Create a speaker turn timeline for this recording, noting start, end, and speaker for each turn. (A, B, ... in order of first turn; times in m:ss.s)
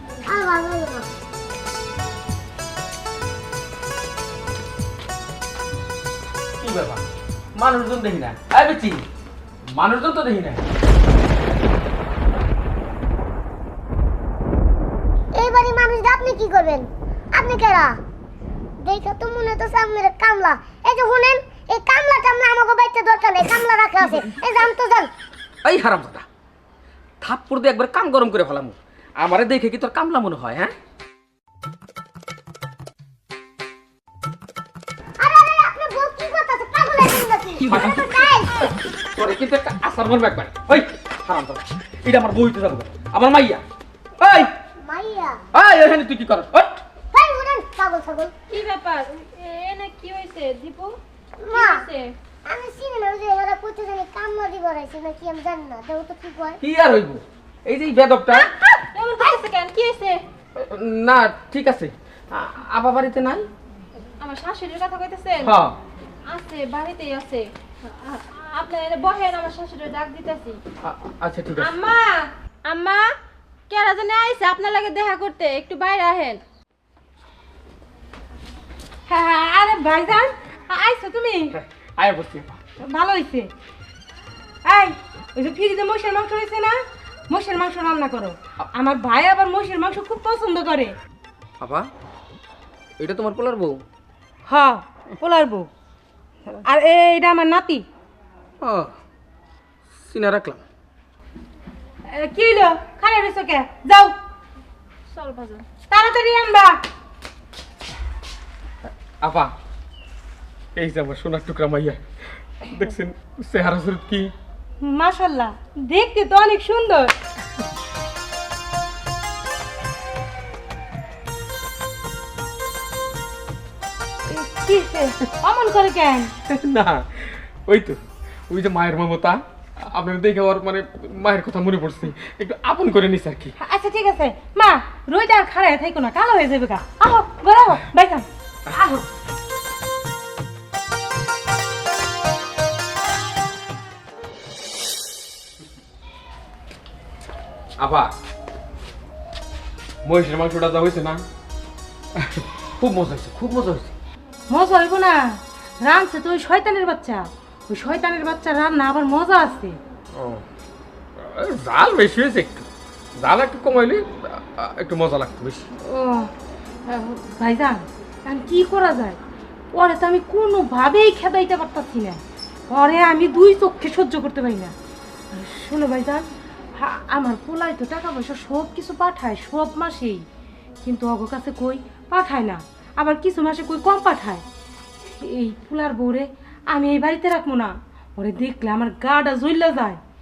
0:00.3-0:01.1 A
0:06.6-0:07.0 B
0:07.6-0:09.0 B
0:09.8-0:10.6 B
0:15.4-0:18.0 A
0:18.8-0:25.1 A
0:25.6-0:26.3 B
0:27.2-0:30.7 B
0:35.2-0:38.7 A
0:37.7-0:38.3 B
0:39.2-0:43.6 B
0:44.2-0:44.5 B
0:44.8-0:45.4 A
0:45.5-0:46.8 B
0:47.1-0:48.3 A
0:48.5-0:51.0 C
0:51.4-0:51.8 A
0:51.5-0:52.1 C
0:52.5-0:56.6 A
0:56.6-0:58.5 B
0:58.3-1:00.2 C
1:00.6-1:03.5 B
1:04.2-1:05.6 C
1:05.4-1:05.8 B
1:06.3-1:10.6 C
1:10.8-1:11.7 B
1:11.6-1:13.0 C
1:13.7-1:16.4 C
1:19.1-1:21.5 D
1:21.5-1:22.6 B
1:22.9-1:23.5 D
1:24.7-1:26.8 D
1:27.3-1:31.0 D
1:31.6-1:31.9 B
1:33.0-1:33.8 B
1:34.5-1:35.7 D
1:36.6-1:37.8 D
1:38.6-1:38.9 B
1:40.0-1:40.6 B
1:42.1-1:44.2 D
1:45.1-1:45.6 C
1:45.9-1:46.8 D
1:48.8-1:49.5 B
1:50.8-1:52.0 B
1:52.6-1:54.3 B
1:54.8-1:57.1 D
2:04.3-2:06.3 D
2:06.5-2:13.6 B
2:13.6-2:19.0 D
2:27.8-2:28.1 B
2:30.0-2:31.2 B
2:32.2-2:34.0 B
2:34.5-2:35.2 D
2:35.8-2:39.8 D
2:40.2-2:40.4 B
2:41.2-2:45.7 B
2:45.8-2:46.3 D
2:46.9-2:49.2 D
2:49.7-2:54.7 D
2:55.3-2:56.2 D
2:56.8-3:00.2 D
3:00.8-3:04.4 D
3:05.0-3:10.0 D